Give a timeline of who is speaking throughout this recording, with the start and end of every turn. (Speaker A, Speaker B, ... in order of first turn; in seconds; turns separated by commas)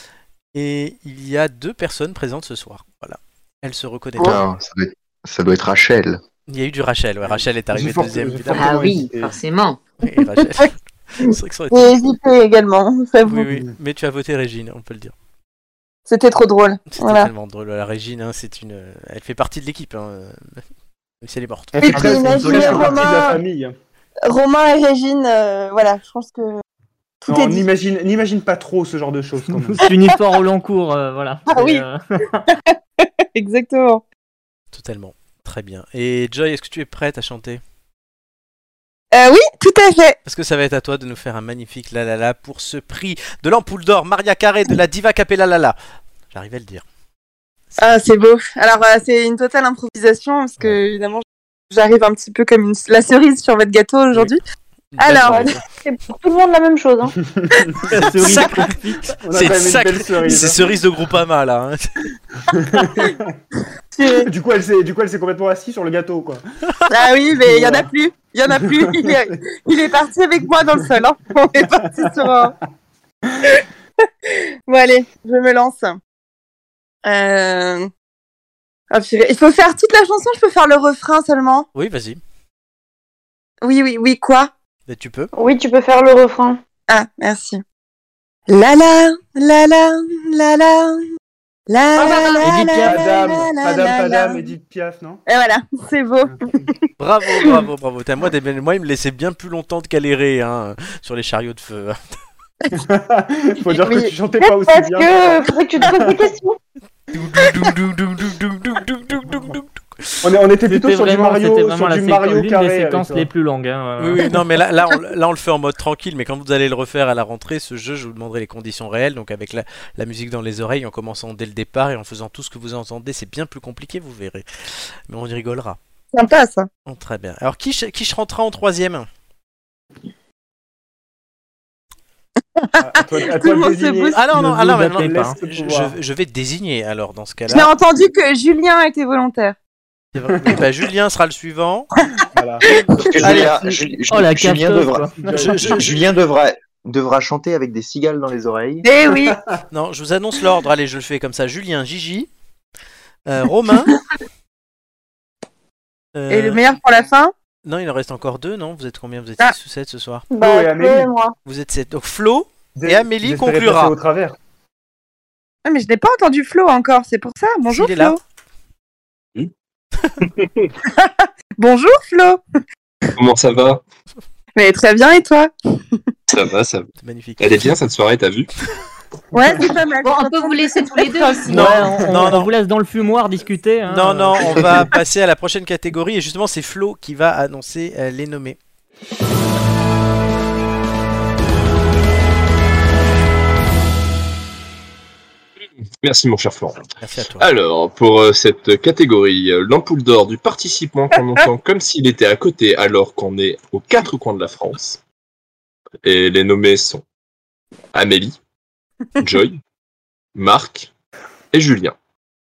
Speaker A: 0.5-4.4, Speaker B: 4.2-6.2, Speaker A: 6.5-8.8, Speaker C: 7.2-9.4, Speaker D: 8.5-9.8, Speaker A: 10.0-11.9, Speaker E: 11.7-13.5, Speaker A: 13.2-15.1, Speaker E: 16.1-17.3, Speaker A: 16.9-20.6, Speaker A: 21.2-22.1, Speaker C: 21.7-23.7, Speaker E: 21.8-23.4, Speaker F: 21.9-23.1, Speaker E: 24.2-26.6, Speaker E: 27.2-27.6, Speaker C: 27.3-29.8, Speaker F: 29.7-32.4, Speaker E: 31.5-31.8, Speaker E: 32.5-34.0, Speaker A: 34.7-37.6, Speaker E: 39.1-40.2, Speaker A: 40.2-45.8, Speaker A: 46.3-46.8, Speaker E: 47.8-54.4, Speaker A: 54.9-55.6, Speaker E: 55.0-55.5, Speaker G: 55.2-57.1, Speaker C: 57.2-57.8, Speaker F: 57.9-59.1, Speaker A: 58.1-58.6, Speaker C: 59.2-60.6, Speaker A: 59.3-61.9, Speaker C: 62.5-63.3, Speaker E: 64.0-64.3, Speaker C: 64.2-66.4, Speaker E: 66.9-72.5, Speaker C: 67.4-67.9, Speaker C: 68.5-69.2, Speaker C: 71.8-72.2, Speaker E: 74.2-76.0, Speaker E: 77.0-77.9, Speaker E: 78.9-81.7, Speaker A: 81.7-82.2, Speaker E: 83.6-84.5, Speaker A: 84.9-85.3, Speaker G: 85.3-86.6, Speaker E: 86.9-87.6, Speaker E: 88.5-91.0, Speaker E: 91.7-94.5, Speaker F: 92.0-93.0, Speaker C: 92.8-95.2, Speaker E: 95.2-96.7, Speaker A: 97.0-102.2, Speaker C: 102.7-106.2, Speaker G: 103.7-106.6, Speaker A: 107.1-110.1, Speaker C: 110.2-113.3, Speaker F: 110.7-114.2, Speaker A: 114.0-125.8, Speaker E: 126.1-126.7, Speaker A: 126.8-129.1, Speaker E: 132.6-134.2, Speaker C: 132.8-135.9, Speaker A: 134.1-137.7, Speaker F: 134.3-135.4, Speaker E: 137.5-139.6, Speaker A: 140.1-141.9, Speaker C: 142.3-142.7, Speaker B: 143.0-145.1, Speaker A: 143.2-143.5, Speaker F: 144.1-145.3, Speaker C: 145.2-145.8, Speaker A: 145.3-145.9, Speaker B: 145.6-148.8, Speaker E: 148.8-149.3, Speaker C: 149.1-149.4, Speaker A: 149.7-152.3, Speaker A: 153.2-153.9, Speaker A: 156.1-156.6, Speaker E: 156.3-157.3, Speaker A: 157.6-160.3, Speaker G: 160.3-161.3, Speaker C: 160.3-161.1, Speaker A: 161.4-163.9, Speaker C: 162.8-164.3, Speaker E: 165.6-168.2, Speaker A: 167.7-168.2, Speaker H: 170.2-170.7, Speaker E: 171.0-172.4, Speaker H: 173.2-173.8, Speaker E: 174.6-176.0, Speaker H: 176.3-176.9, Speaker A: 177.0-177.7, Speaker H: 177.4-178.5, Speaker E: 179.3-181.3, Speaker D: 180.0-181.7, Speaker F: 181.5-184.7, Speaker A: 181.5-182.5, Speaker C: 181.7-182.3, Speaker A: 183.9-188.6, Speaker H: 196.0-196.8, Speaker A: 197.0-197.4, Speaker H: 197.4-205.0, Speaker H: 206.0-207.0, Speaker H: 207.9-208.4, Speaker H: 209.2-209.6, Speaker H: 210.3-210.9, Speaker H: 211.5-211.9